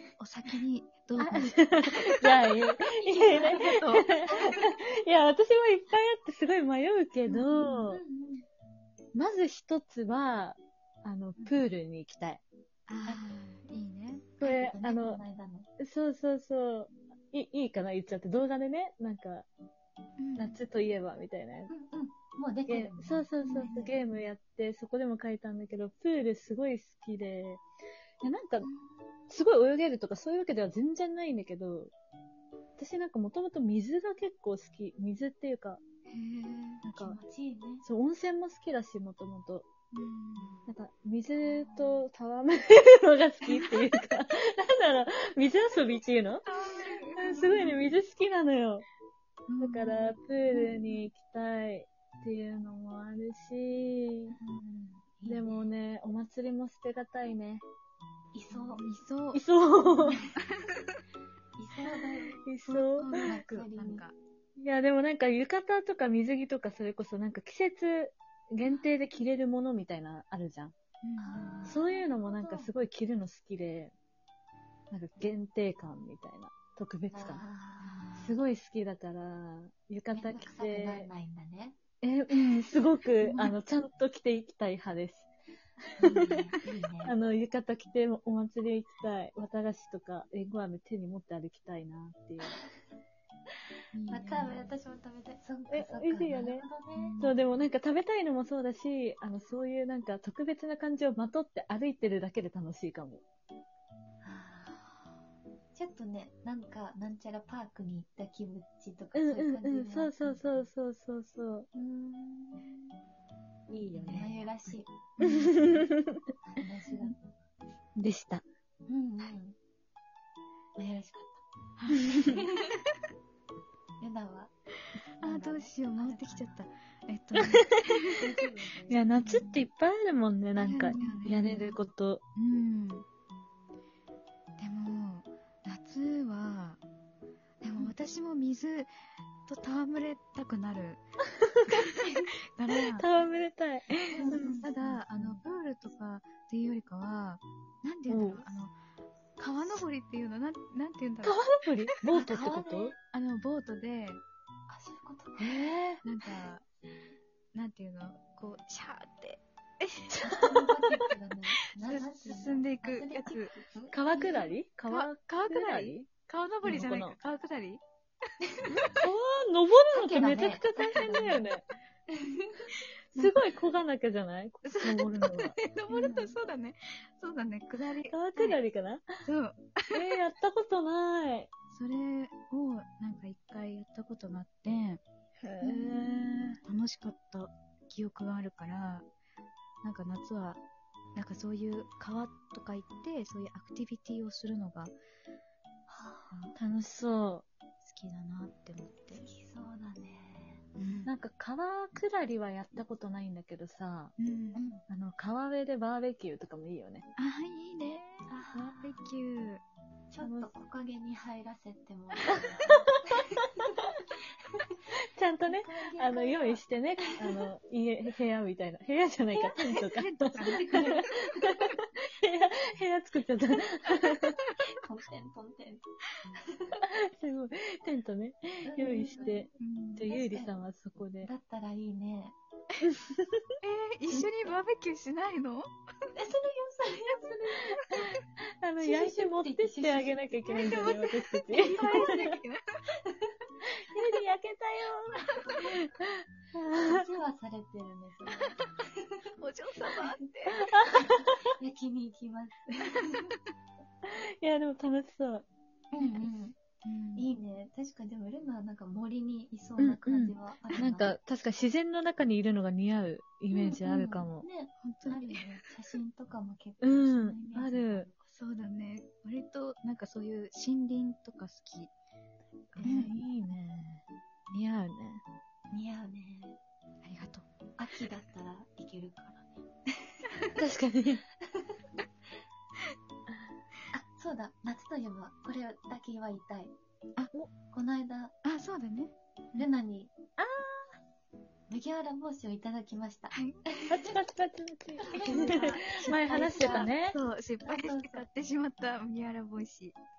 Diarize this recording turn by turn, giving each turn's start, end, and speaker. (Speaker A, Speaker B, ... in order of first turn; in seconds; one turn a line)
Speaker A: 0.2-2.4
Speaker B: 1.2-8.0
Speaker C: 3.0-3.7
Speaker A: 3.3-4.1
Speaker C: 7.3-8.5
Speaker A: 7.5-7.8
Speaker B: 9.2-12.4
Speaker A: 12.9-14.3
Speaker C: 14.4-15.7
Speaker B: 14.4-15.2
Speaker B: 15.8-19.5
Speaker A: 20.2-20.6
Speaker B: 20.4-21.7
Speaker C: 21.7-23.9
Speaker B: 22.7-27.6
Speaker A: 23.4-23.9
Speaker B: 28.2-28.7
Speaker C: 28.6-29.1
Speaker B: 29.3-31.9
Speaker B: 32.8-35.8
Speaker A: 36.1-36.9
Speaker C: 36.8-37.9
Speaker B: 37.8-39.7
Speaker A: 39.9-40.7
Speaker B: 40.7-46.5
Speaker A: 43.5-43.8
Speaker A: 46.5-47.8
Speaker B: 47.2-48.9
Speaker A: 49.5-51.0
Speaker B: 49.6-54.4
Speaker C: 54.3-55.7
Speaker B: 55.2-57.6
Speaker C: 58.3-58.8
Speaker A: 58.5-59.4
Speaker B: 59.3-60.3
Speaker A: 60.3-61.0
Speaker C: 61.6-62.4
Speaker B: 62.5-63.7
Speaker A: 62.7-64.2
Speaker C: 63.1-64.1
Speaker B: 64.6-70.7
Speaker A: 71.0-71.8
Speaker C: 71.2-72.7
Speaker B: 71.7-74.0
Speaker B: 74.9-77.4
Speaker C: 77.1-78.1
Speaker A: 77.8-78.4
Speaker B: 78.2-81.1
Speaker C: 80.1-81.8
Speaker B: 82.0-85.3
Speaker C: 83.2-83.5
Speaker C: 86.0-87.2
Speaker B: 87.0-92.6
Speaker A: 93.9-94.7
Speaker C: 94.1-97.2
Speaker B: 95.7-96.7
Speaker A: 97.0-97.4
Speaker B: 97.2-103.2
Speaker C: 104.2-104.8
Speaker C: 105.8-110.7
Speaker B: 109.2-111.7
Speaker C: 111.8-112.8
Speaker B: 113.7-114.5
Speaker C: 113.9-114.9
Speaker A: 115.2-115.7
Speaker B: 115.2-116.2
Speaker C: 116.5-117.2
Speaker B: 118.0-118.4
Speaker C: 118.9-119.6
Speaker C: 120.8-121.4
Speaker A: 121.8-122.8
Speaker C: 124.0-124.5
Speaker A: 125.2-128.2
Speaker C: 125.2-126.6
Speaker C: 128.1-129.1
Speaker B: 128.9-132.2
Speaker A: 129.2-129.6
Speaker A: 130.6-131.8
Speaker C: 131.0-131.5
Speaker A: 132.4-133.1
Speaker A: 134.6-136.8
Speaker A: 137.6-138.9
Speaker A: 139.5-141.0
Speaker A: 141.7-143.1
Speaker B: 142.9-145.0
Speaker A: 144.0-148.7
Speaker C: 144.1-144.6
Speaker B: 148.1-148.5
Speaker A: 149.4-151.4
Speaker B: 151.2-152.9
Speaker C: 152.1-153.0
Speaker A: 153.1-154.2
Speaker C: 154.7-155.7
Speaker B: 155.4-156.0
Speaker A: 156.0-156.7
Speaker A: 157.5-160.4
Speaker B: 160.2-160.5
Speaker C: 160.2-164.0
Speaker A: 161.6-163.5
Speaker B: 163.9-166.1
Speaker A: 164.2-167.8
Speaker B: 166.6-167.2
Speaker A: 168.6-168.9
Speaker B: 168.8-171.7
Speaker C: 169.9-171.5
Speaker C: 172.2-172.6
Speaker A: 172.7-173.3
Speaker B: 173.2-175.6
Speaker A: 174.7-178.6
Speaker C: 175.9-176.4
Speaker B: 178.1-179.1
Speaker A: 179.2-180.0
Speaker B: 179.9-181.5
Speaker A: 181.7-185.0
Speaker B: 185.4-186.6
Speaker A: 185.6-189.1
Speaker A: 189.8-190.6
Speaker A: 191.2-194.9
Speaker C: 195.9-196.6
Speaker B: 196.6-197.5
Speaker A: 197.8-199.2
Speaker C: 199.1-200.6
Speaker A: 200.8-201.1
Speaker B: 201.1-204.1
Speaker A: 204.2-204.6
Speaker C: 204.5-204.8
Speaker B: 204.9-207.1
Speaker A: 207.2-209.6
Speaker C: 208.3-209.0
Speaker C: 210.1-212.8
Speaker B: 210.2-210.5
Speaker B: 212.6-213.7
Speaker B: 215.2-224.4
Speaker C: 215.4-216.6
Speaker A: 219.7-221.0
Speaker C: 220.4-221.2
Speaker C: 224.7-225.8
Speaker C: 226.4-226.8
Speaker B: 226.8-231.3
Speaker C: 228.7-229.5
Speaker A: 229.6-230.1
Speaker C: 230.1-230.5
Speaker C: 231.2-232.4
Speaker B: 232.8-233.4
Speaker A: 233.6-235.7
Speaker C: 236.1-237.8
Speaker B: 237.9-242.3
Speaker C: 238.8-240.9
Speaker A: 240.6-242.7
Speaker B: 243.6-247.1
Speaker A: 245.3-245.6
Speaker C: 246.7-249.0
Speaker A: 249.4-250.6
Speaker B: 250.7-251.4
Speaker C: 250.7-253.2
Speaker A: 252.9-253.4
Speaker B: 254.1-255.5
Speaker C: 255.9-256.6
Speaker A: 256.0-257.3
Speaker C: 257.2-261.1
Speaker B: 259.8-264.4
Speaker C: 263.5-268.3
Speaker A: 264.8-265.6
Speaker B: 266.8-268.1
Speaker A: 268.3-271.9
Speaker A: 272.7-273.2
Speaker B: 272.8-275.2
Speaker C: 272.8-273.1
Speaker C: 275.7-276.6
Speaker A: 277.0-277.5
Speaker C: 277.8-279.6
Speaker B: 280.6-281.2
Speaker C: 283.9-286.7
Speaker C: 287.7-288.3
Speaker A: 288.4-289.7
Speaker C: 289.6-290.2
Speaker B: 290.4-290.9
Speaker C: 291.7-294.2
Speaker A: 293.3-293.6
Speaker B: 293.9-297.2
Speaker C: 295.0-296.9
Speaker A: 295.1-300.0
Speaker C: 297.6-298.3